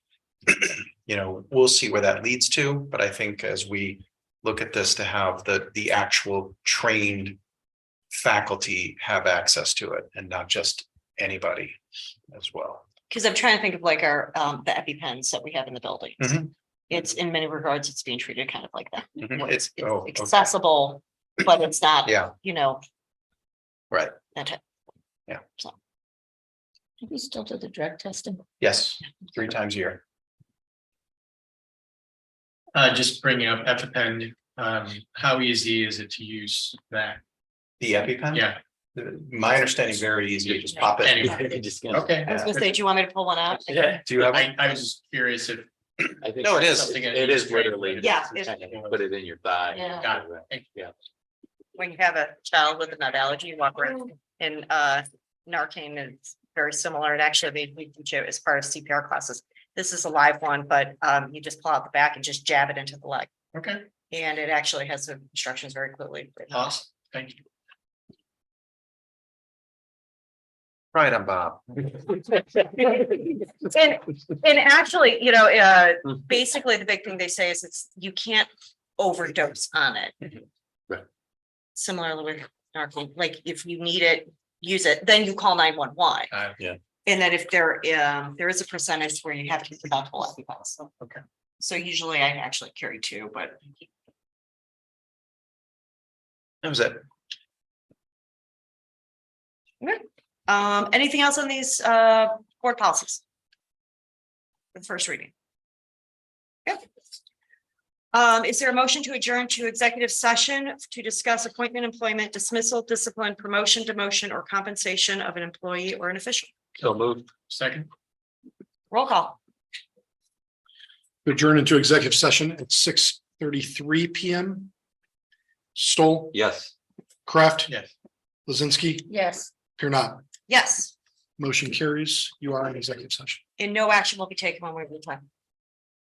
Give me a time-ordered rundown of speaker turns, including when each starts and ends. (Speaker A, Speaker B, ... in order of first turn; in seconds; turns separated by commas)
Speaker A: 0.5-7.4, Speaker A: 8.1-11.8, Speaker A: 12.3-12.8, Speaker B: 13.1-22.8, Speaker A: 16.2-16.5, Speaker A: 19.2-20.5, Speaker A: 22.1-22.3, Speaker A: 23.9-24.1, Speaker B: 24.3-24.6, Speaker C: 27.0-28.4, Speaker A: 28.6-30.0, Speaker D: 32.7-37.2, Speaker A: 37.8-41.4, Speaker D: 38.3-38.6, Speaker D: 40.4-42.7, Speaker E: 41.2-42.3, Speaker B: 42.2-43.9, Speaker E: 43.7-44.0, Speaker A: 44.0-44.5, Speaker D: 44.1-45.7, Speaker E: 46.2-50.9, Speaker A: 46.4-46.9, Speaker D: 46.4-49.0, Speaker B: 48.0-48.5, Speaker C: 49.7-50.1, Speaker D: 49.9-50.8, Speaker B: 51.8-63.3, Speaker D: 63.5-63.9, Speaker B: 64.1-66.7, Speaker D: 66.5-67.4, Speaker A: 70.9-72.0, Speaker B: 72.8-80.3, Speaker B: 81.7-86.3, Speaker D: 86.3-86.6, Speaker B: 87.0-90.9, Speaker B: 91.6-93.8, Speaker A: 96.6-97.0, Speaker B: 99.8-103.2, Speaker B: 104.7-105.3, Speaker B: 108.1-116.5, Speaker E: 116.8-117.3, Speaker D: 117.5-117.9, Speaker B: 118.9-119.4, Speaker F: 121.2-124.7, Speaker F: 125.8-126.4, Speaker E: 126.3-126.7, Speaker F: 127.2-127.7, Speaker F: 128.4-129.1, Speaker C: 129.1-129.5, Speaker F: 129.7-130.2, Speaker B: 130.5-130.9, Speaker F: 131.4-133.4, Speaker B: 133.6-135.2